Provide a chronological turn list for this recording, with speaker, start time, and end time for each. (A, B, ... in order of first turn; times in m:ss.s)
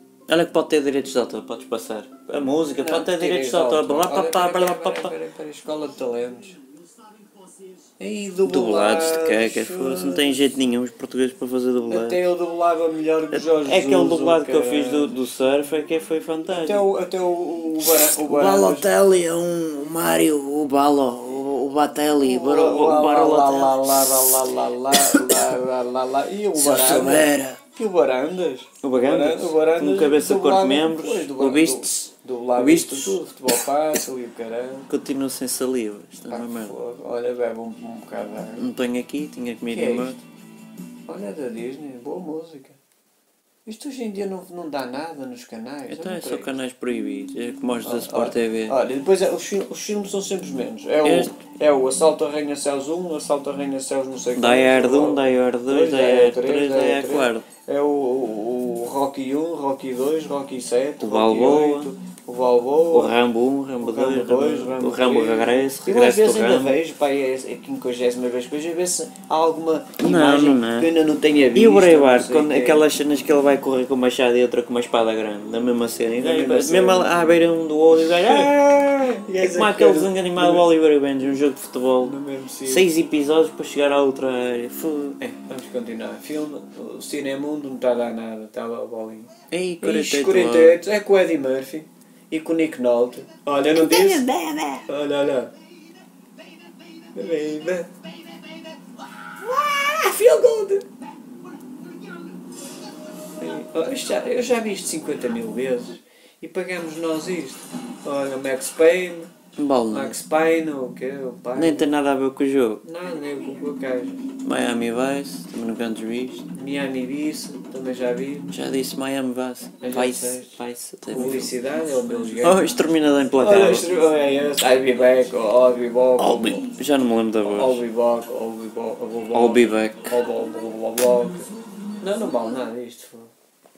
0:00.3-0:05.1 A
0:02.8-0:06.6 B
0:08.0-0:10.6 B
0:08.4-0:12.2 A
0:11.9-0:15.1 B
0:13.3-0:16.8 A
0:16.5-0:18.9 B
0:17.8-0:25.6 A
0:22.2-0:34.9 B
0:26.5-0:27.6 A
0:28.8-0:33.2 A
0:34.9-0:36.7 A
0:36.3-0:38.7 B
0:38.6-0:40.2 A
0:39.7-0:40.2 B
0:41.1-0:42.8 B
0:43.6-0:46.6 B
0:45.9-0:48.8 A
0:47.8-1:03.2 B
0:51.0-0:51.3 A
0:54.4-0:57.5 A
1:01.0-1:01.9 A
1:02.9-1:06.8 A
1:03.8-1:12.8 B
1:10.0-1:10.9 A
1:11.5-1:25.2 A
1:16.2-1:20.7 B
1:22.0-1:22.9 B
1:25.2-1:29.3 B
1:29.5-1:30.8 A
1:29.8-1:34.3 B
1:33.7-1:34.8 A
1:34.8-1:35.5 B
1:37.1-1:37.9 B
1:39.4-1:40.8 B
1:43.4-1:49.3 B
1:49.6-1:50.2 A
1:49.9-1:51.9 B
1:51.5-1:52.8 A
1:52.8-1:54.2 B
1:54.4-1:56.5 A
1:56.5-1:58.6 B
1:58.5-2:01.5 A
1:59.8-2:00.6 B
2:01.1-2:02.7 B
2:02.4-2:03.9 A
2:03.4-2:06.6 B
2:06.2-2:07.8 A
2:07.4-2:13.3 B
2:09.3-2:10.1 A